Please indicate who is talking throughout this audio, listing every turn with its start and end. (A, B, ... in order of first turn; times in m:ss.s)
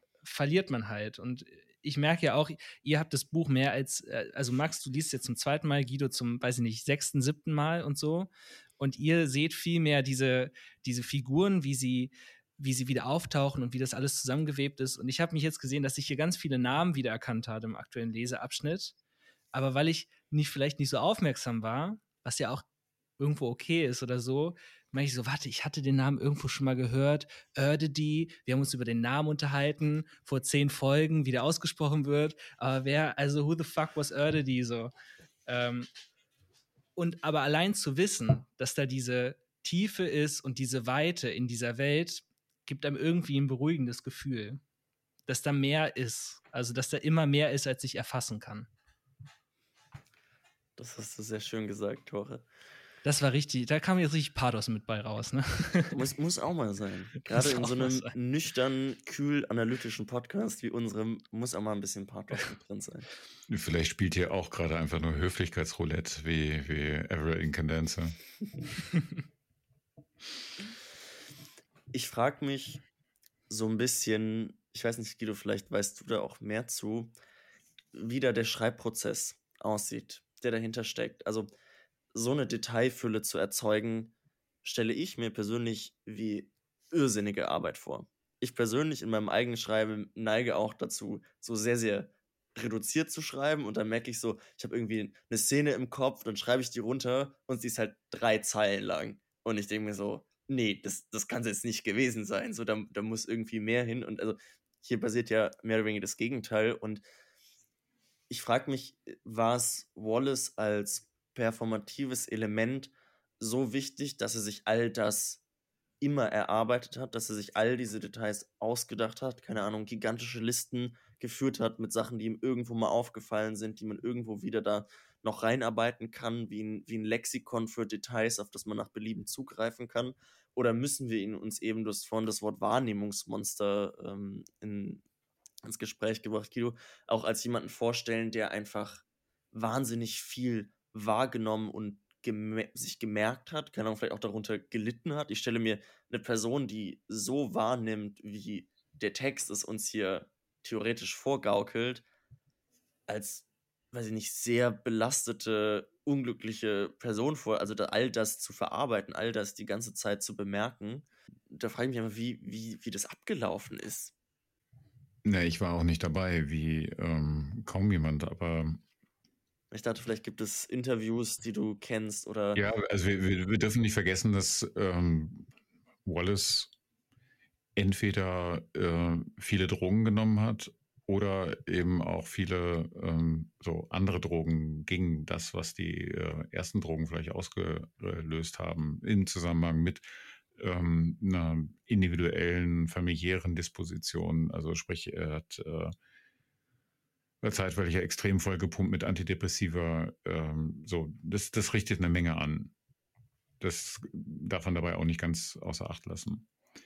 0:00.2-0:18.9 A
0:19.5-0:22.6 A
0:23.2-0:34.9 A
0:35.4-0:35.9 A
0:37.0-0:44.6 A
0:45.3-0:48.7 A
0:50.8-0:52.4 B
0:53.0-0:56.0 A
0:55.9-1:03.1 B
0:57.3-0:58.1 A
1:03.5-1:08.2 C
1:11.9-1:12.8 B
1:13.5-1:17.1 B
1:17.9-1:21.5 B
1:22.1-1:24.1 B
1:24.6-1:47.0 B
1:48.3-1:55.4 B
1:56.0-2:15.0 B
2:15.6-2:32.0 B
2:33.1-2:44.1 B
2:45.2-2:48.8 C
2:49.7-2:52.6 B
2:52.5-2:55.5 C
2:56.0-2:56.7 C
2:57.8-3:10.0 C
3:10.6-3:15.9 C
3:17.4-3:22.7 C
3:23.6-3:26.5 C